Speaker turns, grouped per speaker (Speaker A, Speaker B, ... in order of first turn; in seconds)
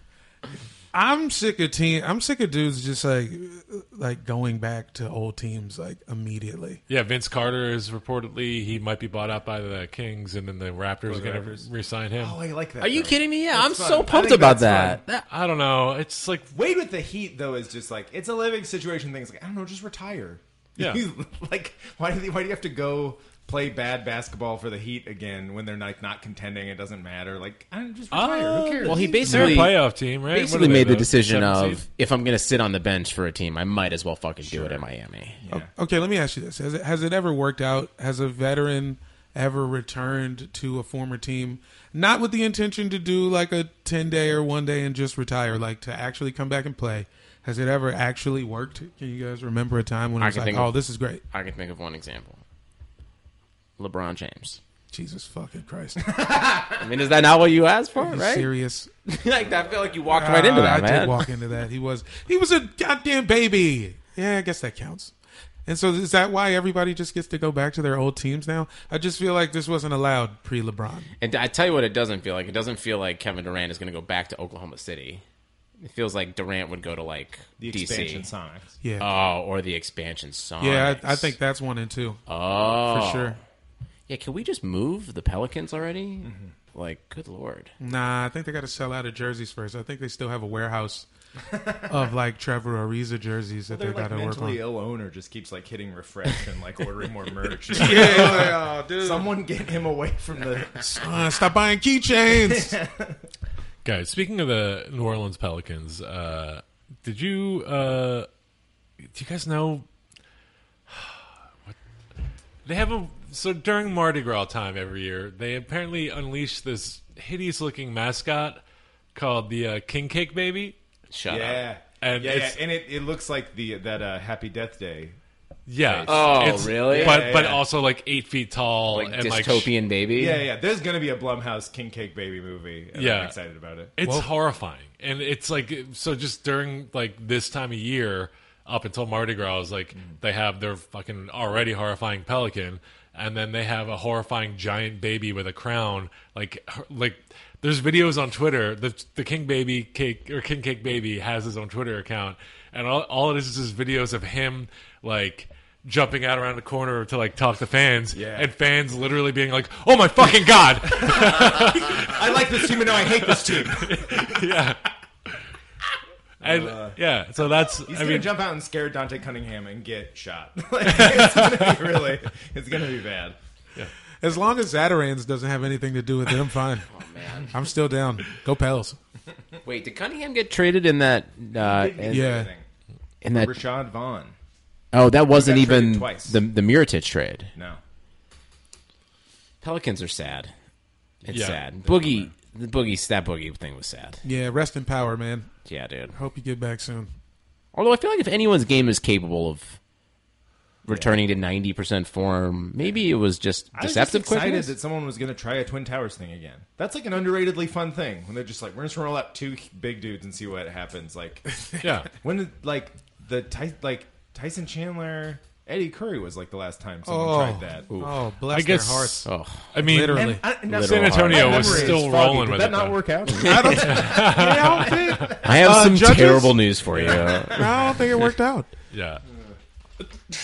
Speaker A: 0.9-6.8, 35.5-51.2, 54.9-56.0, 58.0-58.9, 60.1-65.1, 65.7-71.1, 78.8-79.1, 80.6-82.2, 82.8-83.4, 87.8-91.1, 91.9-94.6, 97.7-99.3, 100.8-102.8, 134.0-134.3, 174.2-176.9, 177.5-179.0, 182.1-182.5, 194.2-195.5, 196.1-197.1, 217.1-220.4, 223.4-226.7, 227.5-228.7
Speaker B: 6.9-12.4, 15.3-16.5, 28.1-31.8, 103.8-108.3, 109.0-109.8, 110.9-111.8, 112.7-118.6, 119.2-120.8, 122.0-122.6, 125.7-129.7, 132.9-133.4, 134.0-165.4, 166.4-168.3, 170.9-171.7, 191.3-191.6, 211.8-212.1, 218.5-223.0, 223.8-225.3, 226.9-227.3, 228.9-229.2
Speaker C: 11.1-15.0, 16.5-29.7, 34.4-34.9, 35.4-35.7, 56.1-56.8, 77.6-78.8, 86.2-86.5, 91.5-92.0, 93.7-101.1, 102.3-103.3, 121.3-125.2, 125.9-127.6, 130.2-133.9, 158.1-158.5, 160.9-164.4, 166.4-167.0, 167.8-173.4, 181.6-182.7, 183.3-184.4, 185.3-186.4, 187.6-187.8, 191.8-192.3, 203.7-217.9, 220.1-225.8, 227.0-227.7
Speaker D: 12.8-15.3, 28.8-35.4, 50.2-50.7, 51.3-52.4, 53.8-54.6, 56.8-58.5, 59.1-61.3, 71.2-75.2, 75.8-78.3, 79.0-81.3, 82.3-83.4, 84.1-87.7, 121.1-121.7, 126.1-127.3, 128.9-130.4, 176.9-177.5, 179.6-182.3, 183.2-183.5, 184.9-187.5, 189.6-190.5, 191.2-194.2, 195.7-196.1, 197.7-199.8, 200.8-204.7, 217.9-218.2, 219.2-219.7, 220.7-222.0, 223.3-224.1, 225.4-227.7